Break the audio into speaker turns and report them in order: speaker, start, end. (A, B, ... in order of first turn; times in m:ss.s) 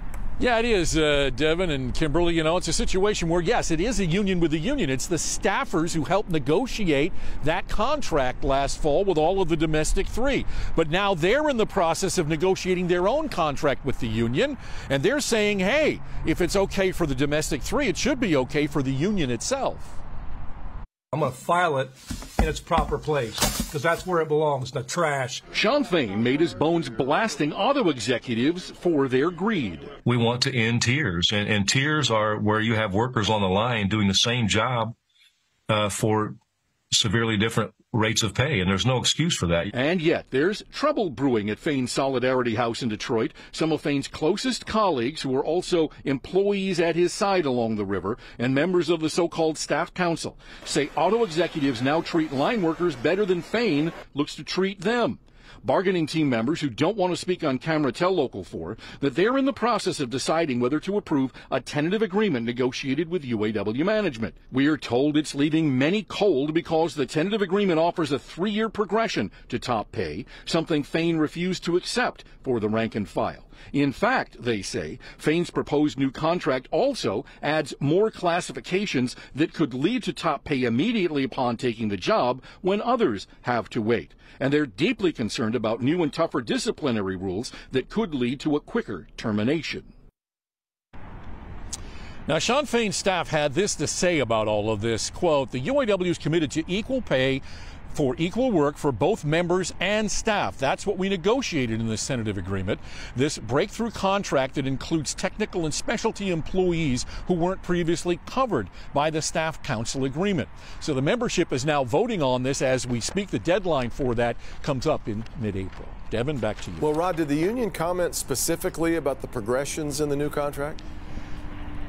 0:00.4-0:20.0 A
0:21.1-0:25.4 B
0:25.5-0:29.9 A
0:30.0-0:35.0 C
0:35.7-0:36.4 C
0:36.9-0:39.7 C
0:39.7-1:29.9 A
1:32.3-1:56.9 A
1:56.8-2:00.8 D